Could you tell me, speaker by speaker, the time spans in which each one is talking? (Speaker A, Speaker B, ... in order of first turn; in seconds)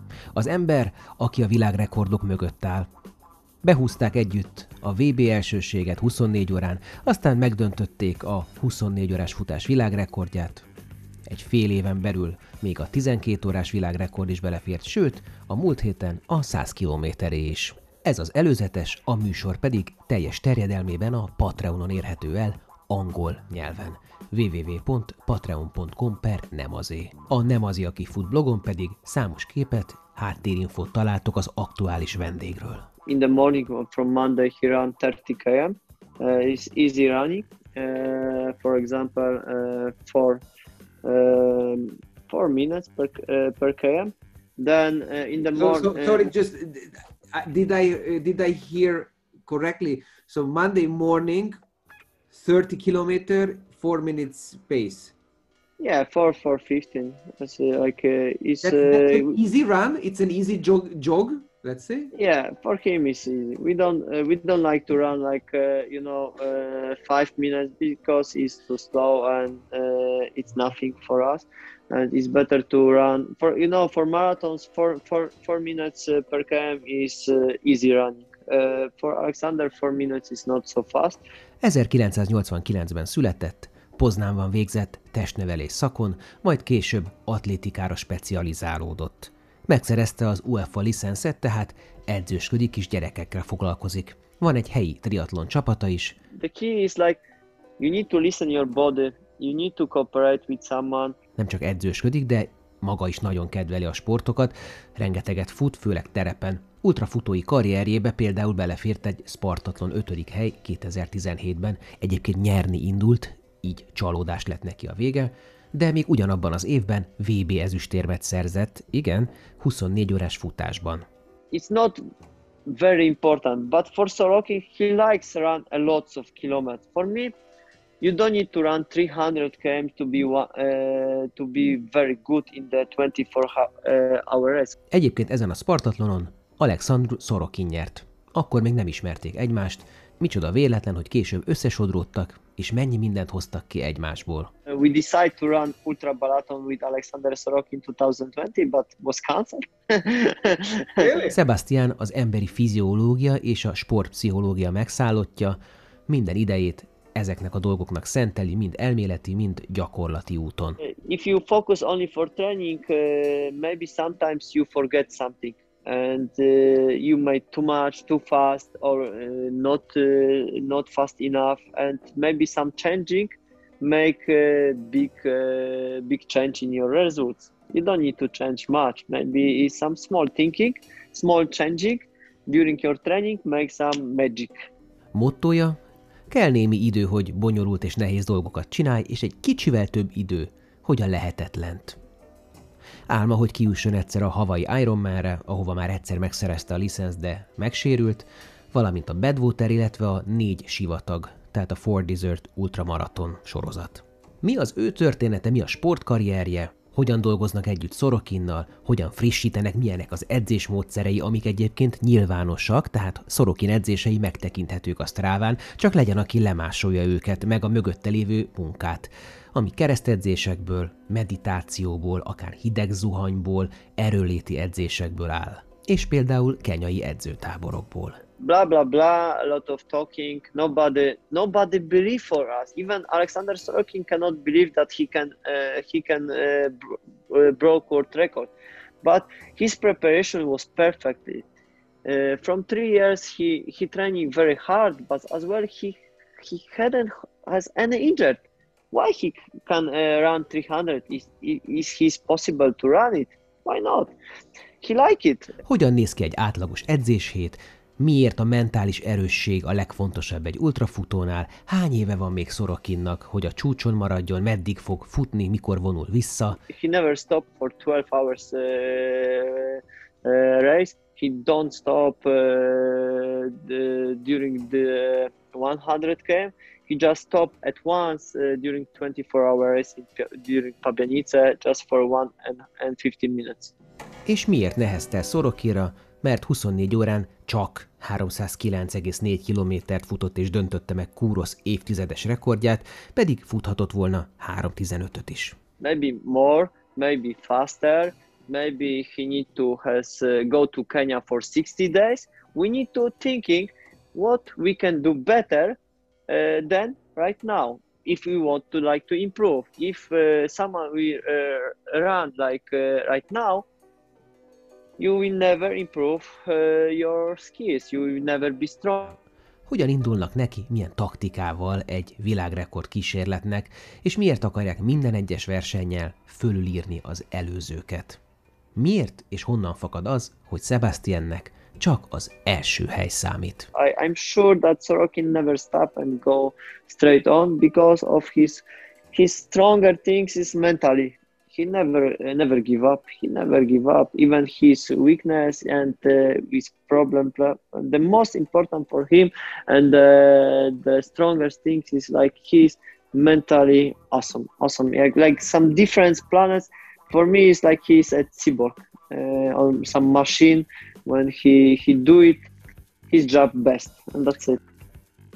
Speaker A: 0.3-2.9, 3.6-10.6, 11.3-32.9, 81.6-96.2, 101.4-121.0, 134.9-144.5, 151.3-155.6, 156.1-160.8, 185.1-185.8, 186.3-192.0, 193.1-228.2, 255.6-266.6, 284.3-295.6, 319.7-328.2, 328.8-333.7
Speaker B: 33.1-40.4, 41.0-46.3, 55.8-59.4, 62.1-81.2, 96.3-97.2, 97.8-101.2, 121.5-122.0, 122.7-127.3, 128.0-134.8, 144.7-151.1, 160.8-184.7, 228.4-241.4, 242.0-254.1, 254.8-255.5, 266.7-283.7, 295.8-313.6, 315.0-319.2, 333.7-362.5, 363.1-364.6
Speaker C: 45.5-51.6, 52.3-55.1, 58.6-62.1, 151.0-151.3